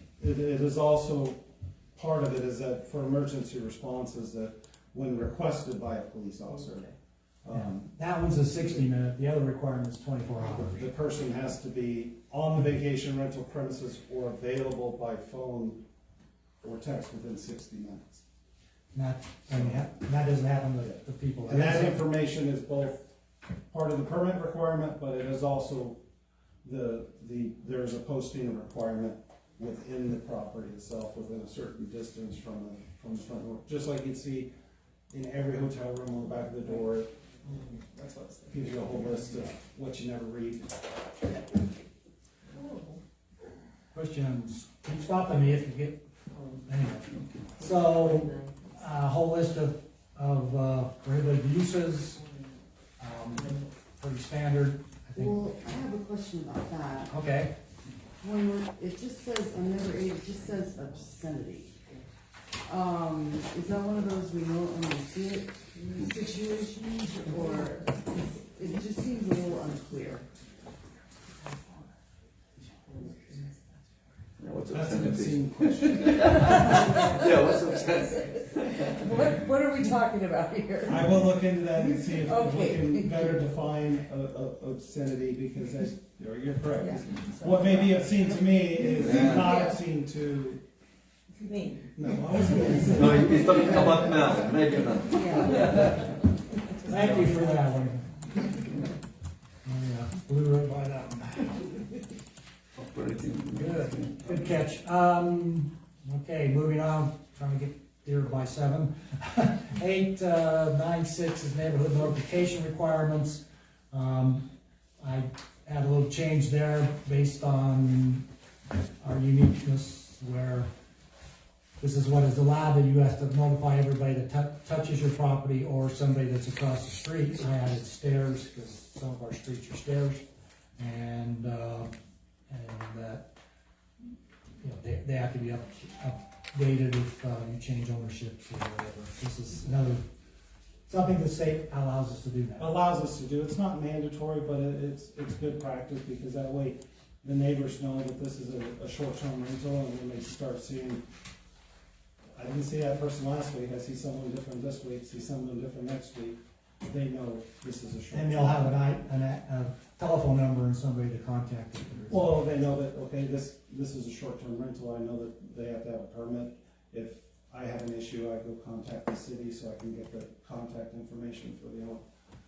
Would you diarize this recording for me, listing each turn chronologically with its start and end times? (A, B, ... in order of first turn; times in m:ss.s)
0:00.2-0:01.4 A
0:02.0-0:06.9 A
0:06.7-0:06.9 B
0:07.4-0:07.9 A
0:07.5-0:10.9 C
0:10.5-0:15.8 A
0:16.6-0:18.2 A
0:18.9-0:22.0 C
0:19.5-0:19.9 A
0:20.8-0:23.0 A
0:23.7-0:26.0 A
0:26.6-0:34.5 A
0:35.1-0:37.1 A
0:37.4-0:38.4 B
0:38.4-0:40.7 A
0:42.5-0:43.0 B
0:43.9-0:46.0 C
0:46.3-0:46.6 B
0:46.6-0:52.2 C
0:47.1-0:47.4 D
0:47.6-0:48.6 B
0:53.0-0:55.5 C
0:55.2-0:57.2 E
0:57.1-0:57.5 C
0:58.2-1:01.7 E
1:02.7-1:10.2 E
1:07.2-1:08.1 B
1:11.3-1:11.8 E
1:12.9-1:13.4 B
1:14.4-1:19.3 D
1:14.7-1:16.5 A
1:16.0-1:23.5 E
1:20.9-1:30.6 A
1:26.8-1:29.8 B
1:29.0-1:29.6 D
1:31.4-1:31.9 B
1:32.0-1:33.8 A
1:32.8-1:34.3 B
1:32.9-1:35.8 D
1:34.9-1:36.0 B
1:35.1-1:36.0 E
1:35.4-1:36.1 C
1:36.8-1:38.1 C
1:36.9-1:37.4 B
1:39.6-1:41.8 C
1:42.8-1:44.3 D
1:43.6-1:54.5 C
1:55.0-1:58.2 C
1:59.0-2:00.7 C
2:01.8-2:10.2 C
2:10.8-2:11.9 C
2:12.5-2:13.2 C
2:14.6-2:20.0 C
2:20.9-2:22.8 C
2:22.6-2:31.0 A
2:32.4-2:38.7 A
2:38.1-2:42.3 C
2:42.1-2:52.0 A